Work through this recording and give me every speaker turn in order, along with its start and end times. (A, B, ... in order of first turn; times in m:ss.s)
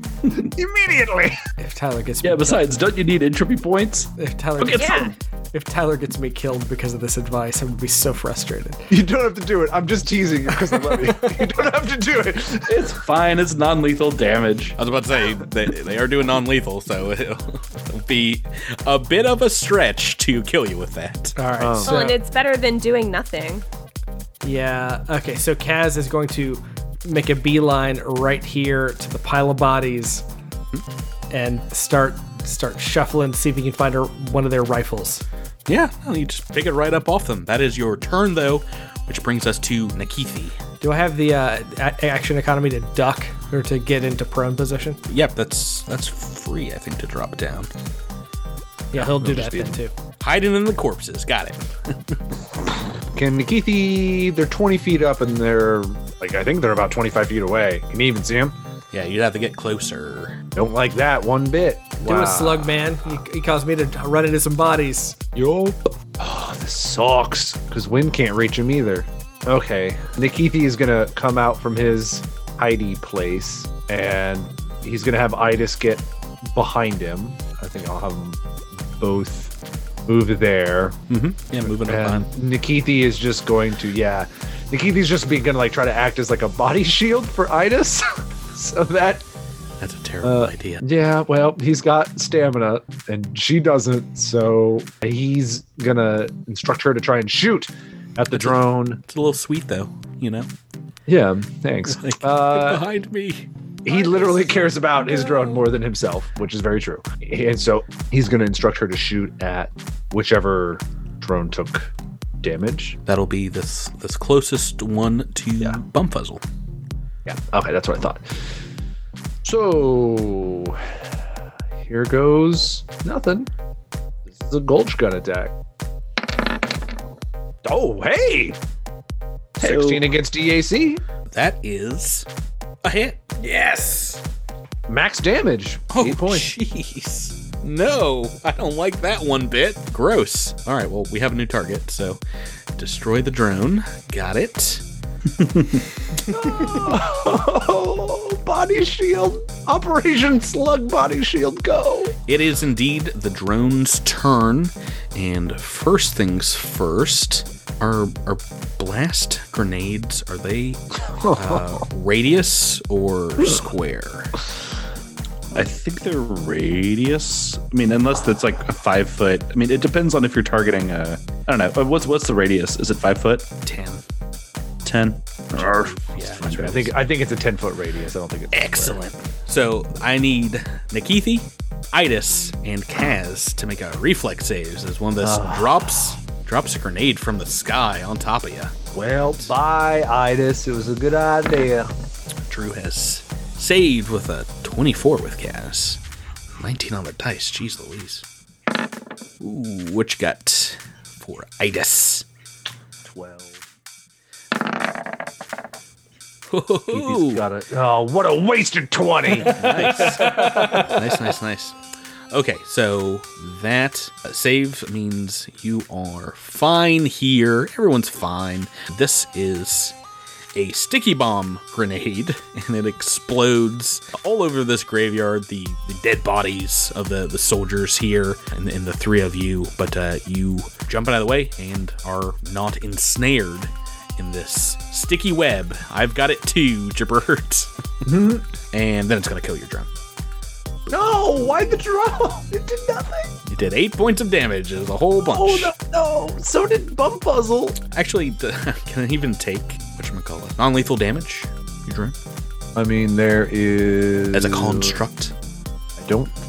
0:00.4-0:01.4 A
0:01.6-0:02.7 B
0:02.2-0:05.1 C
0:04.2-0:08.9 B
0:04.8-0:05.1 D
0:08.9-0:12.9 A
0:10.8-0:11.2 C
0:12.7-0:14.8 C
0:14.8-0:21.4 E
0:21.4-0:22.2 B
0:21.6-0:22.0 A
0:21.8-0:23.6 D
0:24.4-0:30.2 B
0:31.3-0:35.2 B
0:35.7-0:40.6 E
0:40.8-0:45.0 B
0:45.1-0:47.7 E
0:48.9-0:49.9 B
0:48.9-0:49.8 A
0:50.2-0:52.2 E
0:53.1-0:58.6 A
0:58.9-1:00.4 E
1:00.6-1:02.7 A
1:02.0-1:05.2 B
1:05.4-1:18.4 A
1:19.0-1:19.5 A
1:20.1-1:21.0 A
1:21.1-1:22.3 E
1:21.7-1:29.2 A
1:29.8-1:30.8 E
1:30.2-1:39.0 A
1:38.3-1:40.5 E
1:41.1-1:42.9 A
1:41.9-1:43.5 E
1:43.8-1:53.0 A
1:53.1-1:56.4 E
1:57.2-1:58.2 A
1:59.4-2:01.0 A
2:01.8-2:03.5 A
2:04.3-2:05.5 A
2:07.6-2:08.6 A
2:09.6-2:11.0 A
2:09.6-2:10.1 C
2:11.3-2:12.3 E
2:12.8-2:13.5 E
2:13.4-2:14.2 B
2:14.9-2:16.5 A
2:15.9-2:22.2 E
2:22.8-2:24.8 E
2:25.4-2:25.8 C
2:26.3-2:32.2 A
2:32.3-2:44.4 E
2:45.5-2:53.5 C
2:53.6-2:54.0 E
2:54.8-2:56.8 C
2:55.6-2:57.0 E
2:56.4-2:59.0 A
2:58.5-3:08.8 E
3:05.2-3:05.8 A
3:08.9-3:11.9 A
3:12.5-3:16.0 E
3:16.6-3:18.2 E
3:19.4-3:22.2 E
3:23.0-3:23.6 A
3:26.5-3:27.5 E
3:26.9-3:31.0 A
3:29.4-3:31.8 E
3:29.4-3:30.9 B
3:32.3-3:40.0 E
3:40.5-3:57.7 E
3:58.0-3:58.4 A
3:58.7-3:59.9 E
4:00.9-4:03.3 A
4:03.5-4:05.7 E
4:05.2-4:07.8 A
4:07.9-4:12.2 E
4:12.8-4:15.0 A
4:14.3-4:15.3 E
4:16.0-4:16.3 A